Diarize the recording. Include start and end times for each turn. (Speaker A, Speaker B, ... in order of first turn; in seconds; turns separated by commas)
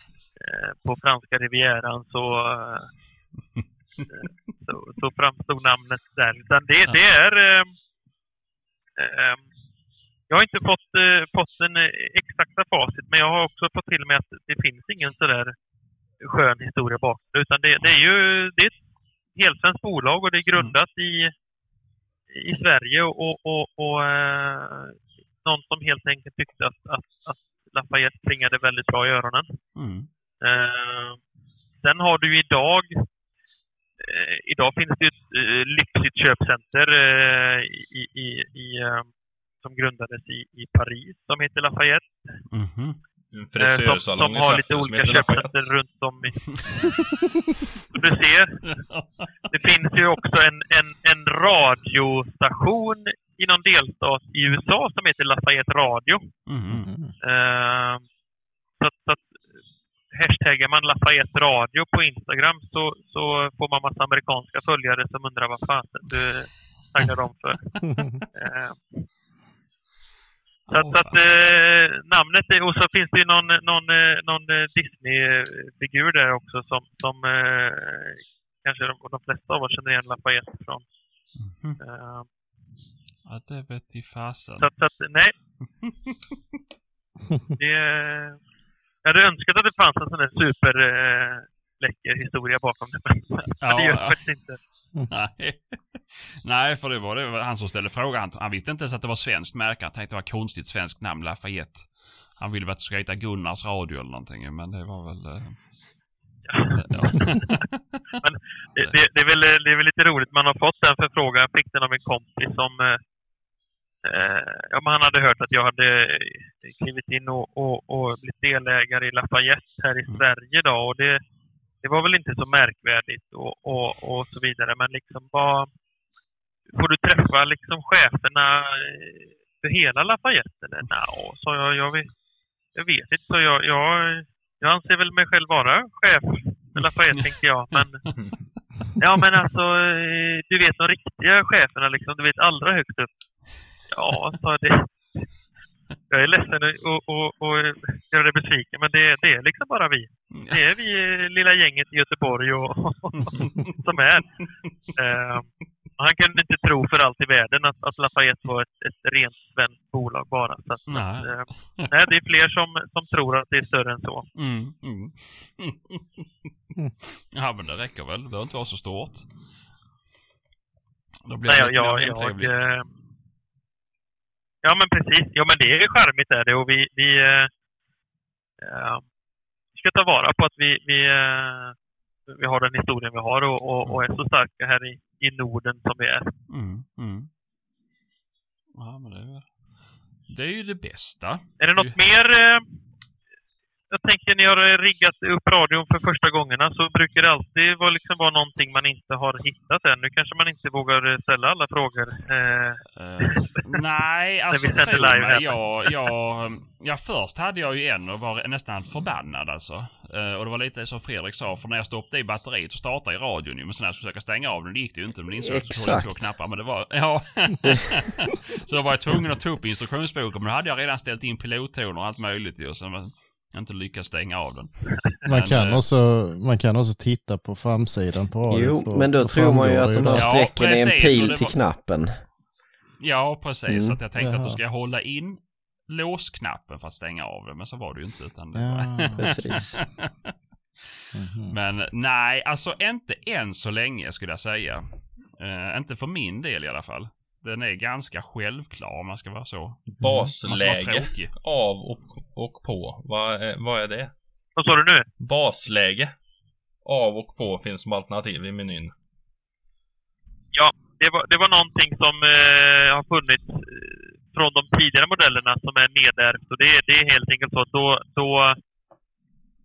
Speaker A: 0.4-3.0, Speaker A: 4.1-7.7, Speaker A: 9.0-9.5, Speaker A: 10.3-15.5, Speaker A: 16.2-18.8, Speaker A: 19.4-21.3, Speaker A: 22.3-29.6, Speaker B: 29.8-30.1, Speaker A: 30.4-31.2, Speaker A: 31.8-33.0, Speaker A: 34.0-39.1, Speaker A: 39.6-42.2, Speaker B: 42.5-43.0, Speaker C: 43.3-45.7, Speaker A: 43.6-46.7, Speaker B: 46.5-46.9, Speaker A: 47.9-48.7, Speaker B: 48.6-49.3, Speaker A: 49.5-56.2, Speaker B: 56.5-56.9, Speaker D: 56.7-57.1, Speaker A: 57.2-58.0, Speaker A: 58.8-59.4, Speaker A: 60.1-69.1, Speaker D: 67.9-68.1, Speaker B: 70.7-71.2, Speaker A: 70.7-80.8, Speaker B: 81.4-81.8, Speaker A: 81.8-82.3, Speaker B: 83.2-84.7, Speaker A: 84.6-85.3, Speaker B: 85.6-86.2, Speaker A: 87.6-88.4, Speaker A: 89.0-94.6, Speaker B: 93.6-94.2, Speaker B: 95.1-105.8, Speaker A: 106.5-107.6, Speaker B: 106.7-108.0, Speaker A: 108.2-113.0, Speaker A: 114.0-121.2, Speaker A: 121.8-125.7, Speaker A: 126.7-132.1, Speaker A: 132.7-138.1, Speaker B: 137.7-138.1, Speaker A: 139.0-145.3, Speaker A: 146.1-154.4, Speaker B: 150.3-150.6, Speaker B: 153.1-153.8, Speaker A: 154.9-164.3, Speaker B: 160.9-161.9, Speaker B: 164.4-166.3, Speaker B: 167.3-169.3, Speaker B: 171.3-172.7, Speaker A: 171.5-172.9, Speaker A: 174.6-177.5, Speaker A: 178.6-179.0, Speaker A: 179.7-181.8, Speaker A: 182.3-186.3, Speaker B: 186.5-187.3, Speaker B: 188.8-189.6, Speaker B: 190.3-192.0, Speaker A: 191.6-192.7, Speaker A: 193.9-203.8, Speaker B: 202.9-225.8, Speaker A: 204.5-206.1, Speaker E: 215.4-216.3, Speaker D: 225.3-230.4, Speaker E: 228.5-232.2, Speaker B: 230.1-231.5, Speaker B: 233.0-240.3, Speaker E: 233.7-234.0, Speaker D: 234.2-234.6, Speaker D: 238.5-239.5, Speaker E: 239.2-239.8, Speaker D: 241.1-241.6, Speaker B: 241.5-251.3, Speaker C: 249.9-254.1, Speaker D: 250.0-250.3, Speaker A: 254.6-255.1, Speaker C: 255.2-256.1, Speaker C: 256.9-258.9, Speaker A: 260.5-268.6